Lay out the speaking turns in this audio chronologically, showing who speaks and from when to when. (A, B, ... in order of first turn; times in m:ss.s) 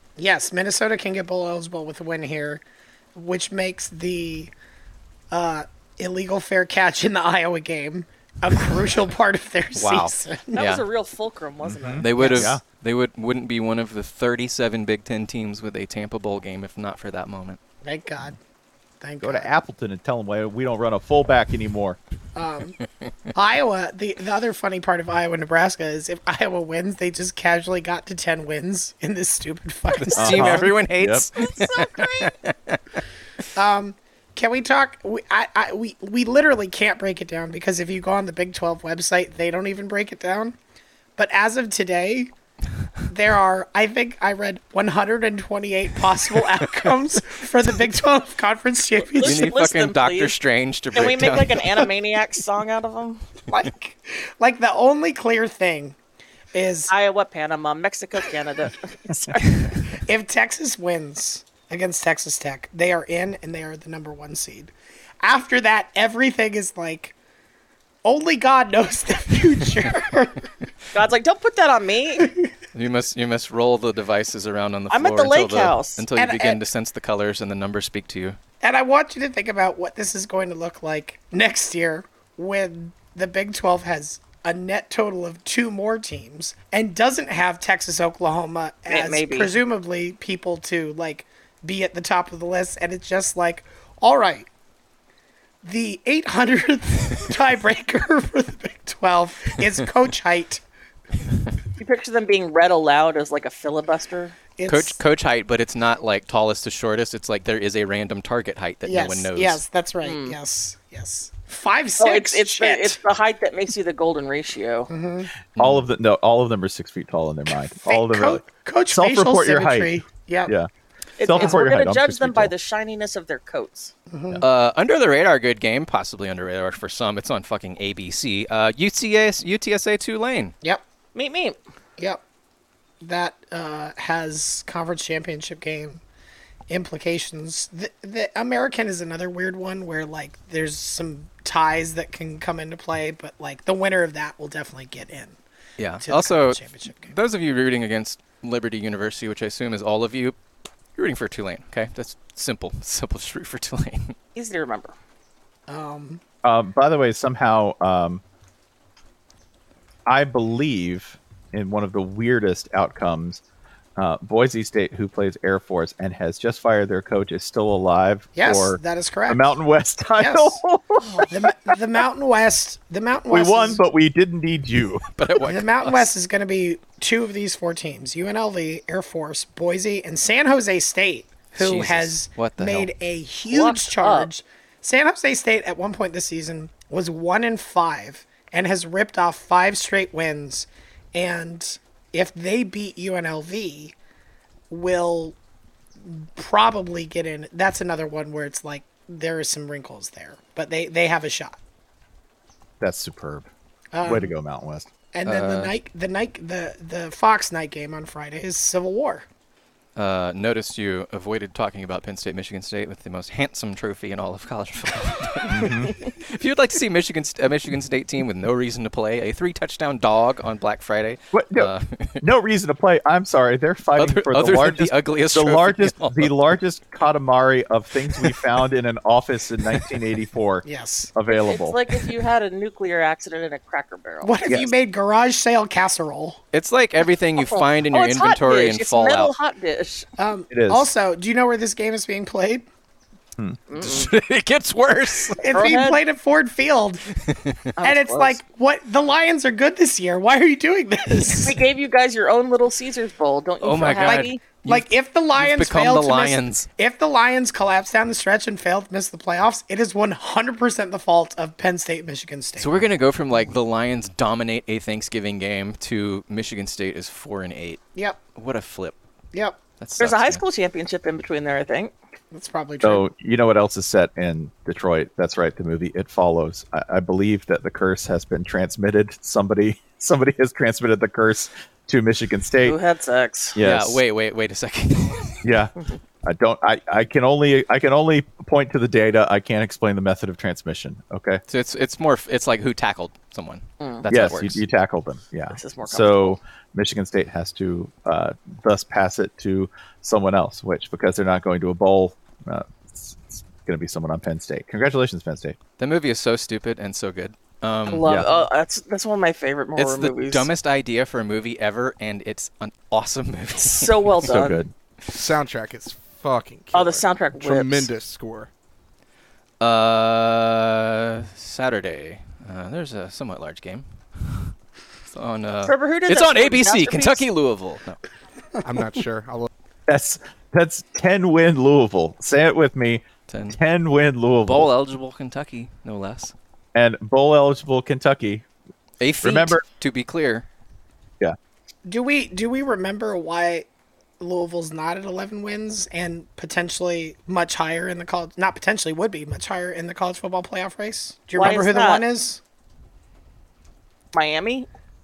0:00.2-0:02.6 A
0:03.1-0:04.5 A
0:05.3-0:10.6 A
0:09.8-0:10.8 B
0:10.5-0:12.1 C
0:11.6-0:12.6 D
0:12.0-0:17.6 B
0:12.2-0:12.5 A
0:17.8-0:18.4 A
0:19.0-0:19.5 A
0:19.2-0:22.0 D
0:22.3-0:22.8 A
0:23.3-0:30.7 A
0:29.9-0:32.8 B
0:30.2-0:31.3 D
0:31.4-0:32.3 C
0:33.6-0:40.6 A
0:41.2-0:42.3 A
0:43.0-0:49.4 A
0:49.0-0:50.3 C
0:49.2-0:51.6 B
0:50.9-0:53.2 C
0:53.5-0:56.0 A
0:56.5-0:56.9 A
0:56.9-0:59.8 C
0:59.9-1:07.1 A
1:08.0-1:10.4 A
1:10.9-1:12.3 C
1:12.2-1:12.5 A
1:12.7-1:18.4 B
1:14.9-1:16.0 C
1:16.1-1:16.6 A
1:18.6-1:34.5 A
1:28.9-1:29.5 C
1:35.6-1:40.6 A
1:41.8-1:44.4 C
1:44.6-1:45.0 A
1:44.7-1:49.6 B
1:48.8-1:53.0 A
1:50.0-1:50.4 C
1:52.0-1:54.9 C
1:54.9-1:55.3 A
1:55.6-1:55.9 B
1:55.6-2:00.7 D
1:57.7-2:00.5 A
2:01.2-2:03.9 C
2:01.2-2:02.5 D
2:01.3-2:01.6 A
2:04.1-2:04.4 A
2:04.4-2:10.5 B
2:11.1-2:11.6 C
2:13.0-2:16.0 A
2:16.7-2:25.4 A
2:25.8-2:30.4 B
2:26.0-2:27.1 A
2:31.0-2:34.1 B
2:34.3-2:34.9 C
2:35.7-2:36.2 A
2:36.4-2:38.2 D
2:40.1-2:43.4 D
2:44.0-2:51.3 D
2:48.4-2:49.4 A
2:50.2-2:53.8 A
2:53.3-2:55.0 D
2:55.2-2:56.1 B
2:55.4-3:13.9 A
3:01.5-3:02.9 B
3:03.5-3:04.3 C
3:14.7-3:15.4 A
3:16.0-3:21.6 A
3:22.8-3:23.5 D
3:23.9-3:24.3 A
3:24.0-3:24.9 D
3:25.1-3:29.2 A
3:25.2-3:25.7 B
3:30.0-3:42.2 B
3:35.5-3:35.9 D
3:41.3-3:51.8 D
3:44.0-3:46.3 B
3:50.6-3:51.1 A
3:51.3-3:54.4 C
3:54.2-3:56.4 A
3:56.5-3:59.3 B
3:57.4-4:00.1 C
4:00.2-4:02.6 A
4:00.5-4:00.9 D
4:03.7-4:04.1 C
4:03.8-4:05.4 B
4:05.4-4:07.0 A
4:05.5-4:06.0 C
4:07.2-4:07.6 B
4:07.8-4:08.4 C
4:07.8-4:11.6 A
4:11.4-4:14.4 C
4:13.6-4:16.7 B
4:13.9-4:22.9 A
4:22.6-4:27.8 B
4:28.4-4:29.0 B
4:29.8-4:30.4 B
4:30.0-4:31.9 C
4:32.3-4:33.1 A
4:32.8-4:42.8 D
4:42.6-4:43.6 C
4:43.5-4:44.0 D
4:43.6-4:45.6 B
4:45.4-4:51.4 D
4:51.5-4:54.6 B
4:53.8-4:54.0 C
4:54.1-5:05.6 D
4:55.5-4:56.4 C
5:05.8-5:08.4 B
5:07.8-5:10.5 C
5:09.8-5:14.2 B
5:13.6-5:14.6 C
5:14.2-5:14.7 D
5:15.1-5:18.5 E
5:16.7-5:17.9 C
5:19.6-5:24.5 B
5:25.1-5:28.0 B
5:25.6-5:27.2 C
5:28.6-5:29.5 E
5:29.9-5:34.7 D
5:33.3-5:33.6 B
5:34.4-5:36.3 B
5:36.7-5:38.4 D
5:39.0-5:40.4 B
5:39.2-5:39.6 D
5:41.8-5:43.7 A
5:44.2-5:52.4 A
5:51.3-5:52.0 C
5:54.1-5:54.7 C